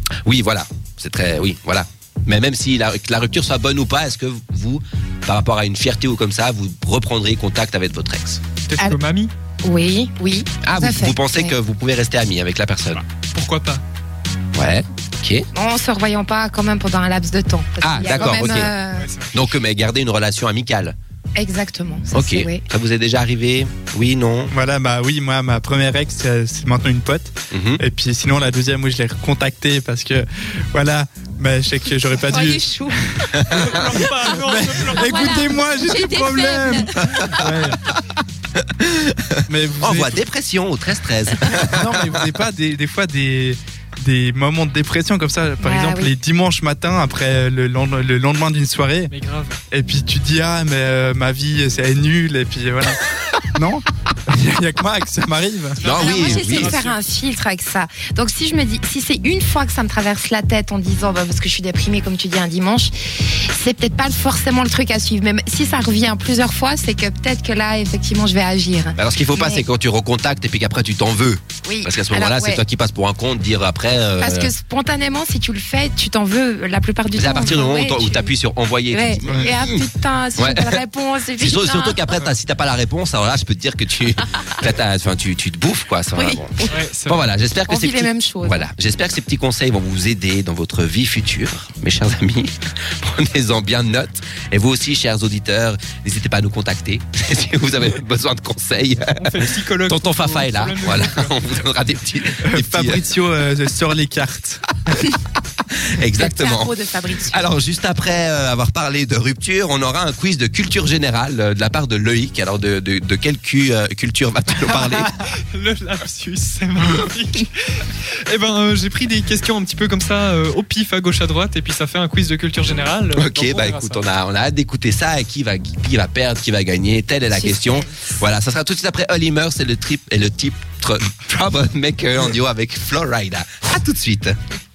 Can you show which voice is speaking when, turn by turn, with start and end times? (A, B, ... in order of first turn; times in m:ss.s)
0:00.2-0:08.4 A
0:08.7-0:09.3 B
0:09.6-0:11.5 C
0:10.6-0:13.0 A
0:12.9-0:13.8 B
0:14.5-0:15.5 A
0:15.5-0:19.1 C
0:17.8-0:18.7 A
0:18.3-0:19.4 B
0:19.3-0:20.9 A
0:21.4-0:22.6 C
0:22.1-0:24.5 A
0:24.5-0:33.3 D
0:27.5-0:27.8 A
0:32.3-0:33.0 C
0:33.3-0:33.6 A
0:33.4-0:35.6 B
0:34.3-0:37.8 D
0:35.0-0:37.6 C
0:37.0-0:37.4 A
0:38.6-0:42.3 A
0:39.5-0:40.2 D
0:41.6-0:49.1 D
0:45.6-0:46.1 C
0:49.1-0:49.6 B
0:49.7-0:55.9 D
0:55.8-0:57.0 B
0:55.8-0:56.8 A
0:55.8-1:09.6 C
1:09.0-1:14.5 A
1:11.6-1:12.6 C
1:14.2-1:18.3 C
1:17.2-1:19.8 A
1:18.9-1:22.0 C
1:20.4-1:20.8 A
1:21.3-1:39.3 A
1:26.1-1:26.7 C
1:26.7-1:27.3 B
1:27.6-1:28.7 C
1:39.2-1:41.4 B
1:39.9-1:43.1 A
1:42.4-1:44.7 D
1:45.8-1:55.1 A
1:46.1-1:47.5 C
1:55.0-2:04.0 B
2:03.1-2:14.4 A
2:07.3-2:08.1 C